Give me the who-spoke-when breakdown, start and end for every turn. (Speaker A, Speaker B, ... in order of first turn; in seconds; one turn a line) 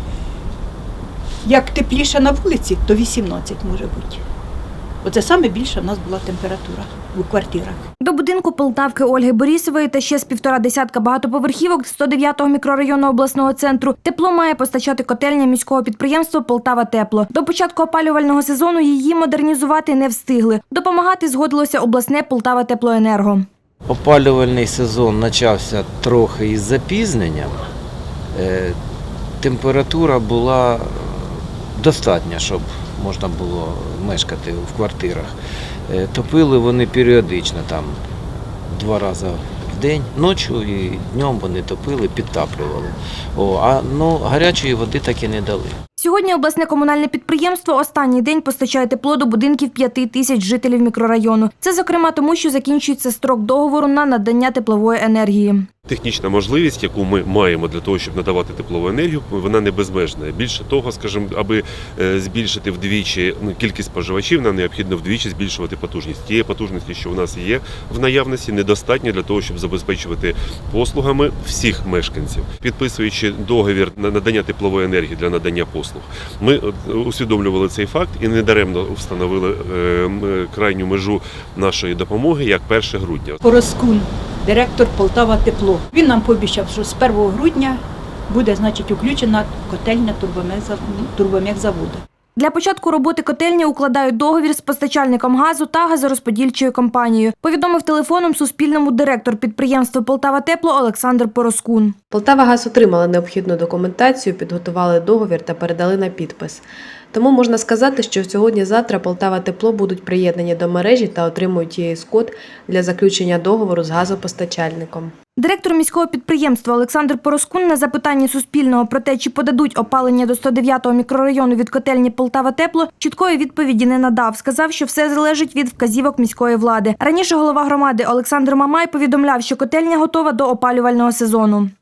Speaker A: 1.4-4.2
Speaker A: 5.0-7.8
Speaker B: 8.0-23.5
Speaker C: 23.9-27.6
Speaker C: 28.3-28.8
Speaker C: 29.4-35.3
Speaker C: 35.9-38.0
Speaker C: 38.7-45.8
Speaker B: 46.0-55.7
Speaker D: 55.9-83.4
Speaker A: 83.4-92.0
Speaker B: 92.4-102.0
Speaker E: 102.1-115.1
Speaker B: 115.4-131.7